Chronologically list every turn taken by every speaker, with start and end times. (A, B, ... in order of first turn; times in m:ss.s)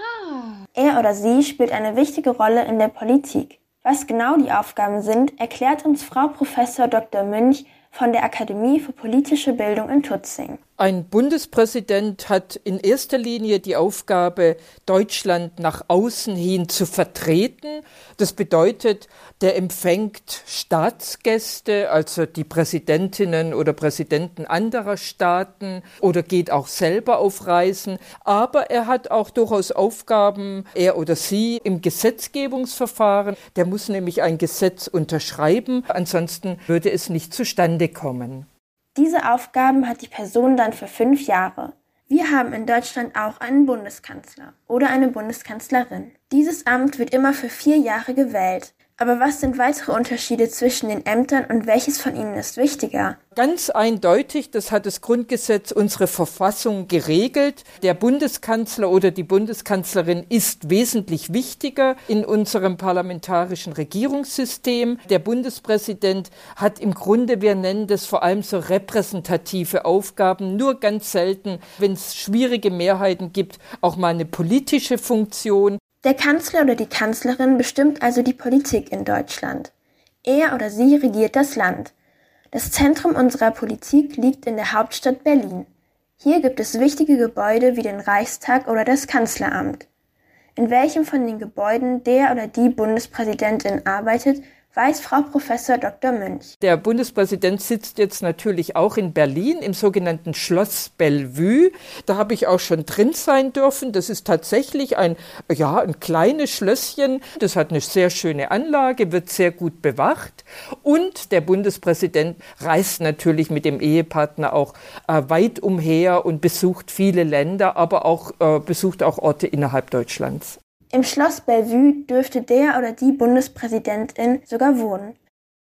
0:00.7-0:10.6 A
0:10.8-0:38.4 B
0:38.9-0:53.2 A
0:53.4-1:15.8 B
1:16.0-1:19.7 A
1:20.2-1:21.9 A
1:22.5-1:29.9 A
1:30.6-1:36.5 A
1:36.6-2:00.6 B
2:00.9-2:05.2 A